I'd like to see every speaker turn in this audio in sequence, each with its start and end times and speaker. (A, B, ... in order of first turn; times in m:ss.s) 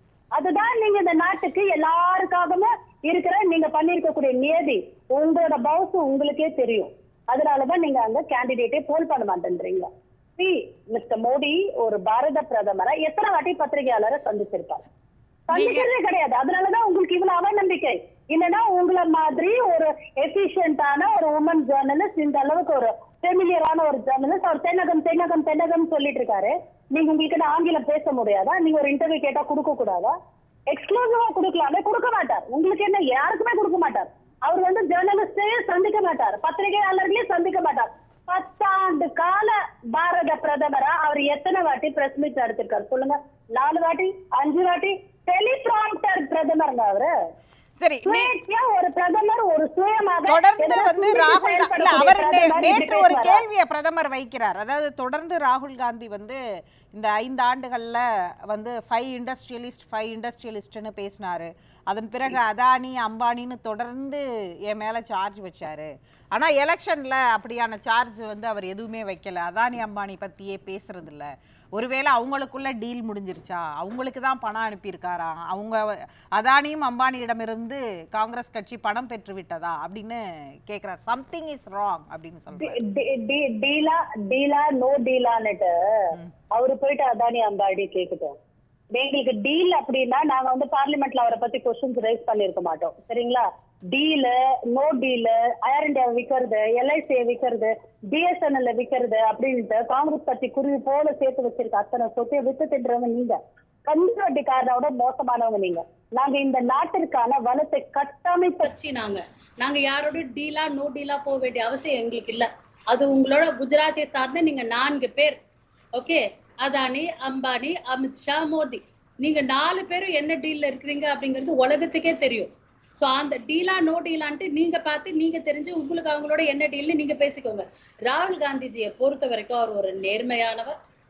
0:00.3-0:09.9 A
0:10.4-0:14.8 A
0:15.5-0:30.1 A
0:15.5-0:15.9 B
0:30.7-0:47.1 A
0:47.8-0:48.3 B
0:48.0-0:53.4 A
0:50.3-0:56.4 B
0:56.9-1:22.8 B
1:22.6-1:25.7 A
1:26.5-1:28.4 A
1:28.9-1:48.7 A
1:48.6-1:55.4 C
1:55.9-2:10.8 C